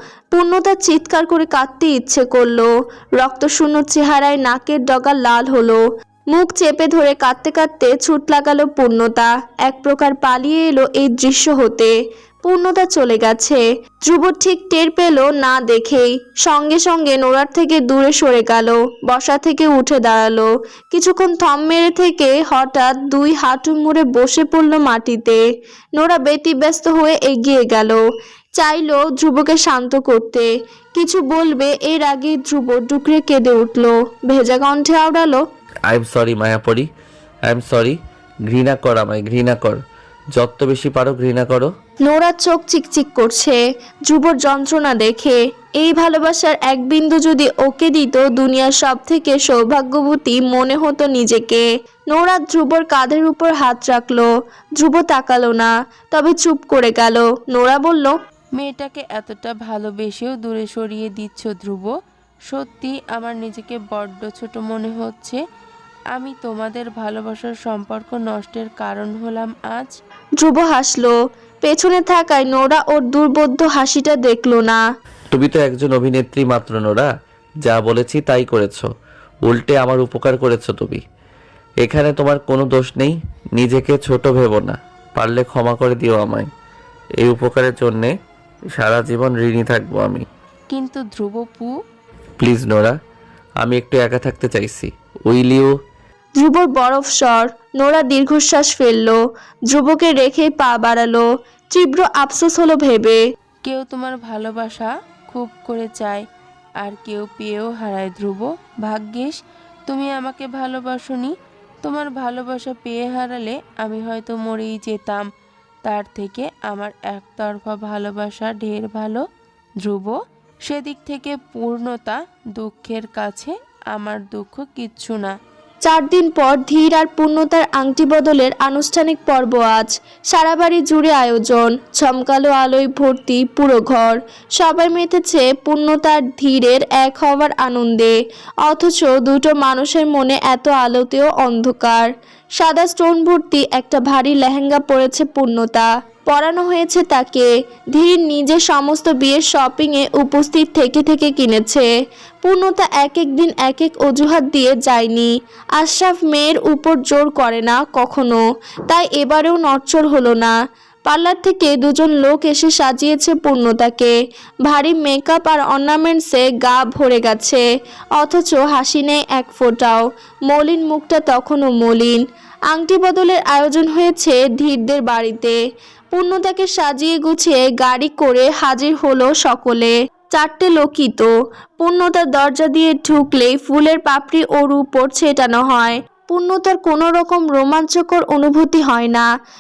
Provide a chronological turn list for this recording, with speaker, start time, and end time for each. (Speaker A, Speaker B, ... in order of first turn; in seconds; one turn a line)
Speaker A: 0.3-25.4
Speaker A: 26.0-28.0
Speaker A: 28.6-35.4
Speaker B: 35.9-36.9
Speaker B: 37.5-39.8
Speaker B: 40.4-41.7
Speaker A: 42.0-58.1
Speaker C: 58.6-61.9
Speaker C: 62.5-65.4
Speaker C: 66.1-69.9
Speaker A: 70.4-74.8
Speaker B: 75.3-77.1
Speaker B: 77.6-78.9
Speaker B: 79.5-81.0
Speaker B: 81.8-86.5
Speaker B: 87.2-88.1
Speaker B: 88.7-90.2
Speaker C: 90.7-91.7
Speaker B: 92.4-93.0
Speaker B: 93.6-95.7
Speaker A: 96.4-103.2
Speaker C: 103.7-106.2
Speaker C: 106.8-109.4
Speaker C: 109.9-111.3
Speaker C: 111.8-115.2
Speaker C: 115.9-119.2
Speaker C: 119.8-120.2
Speaker C: 120.7-125.3
Speaker A: 125.8-151.9
Speaker A: 152.4-160.6
Speaker A: 161.1-164.2
Speaker A: 164.7-167.7
Speaker A: 168.2-175.6
Speaker A: 176.1-189.3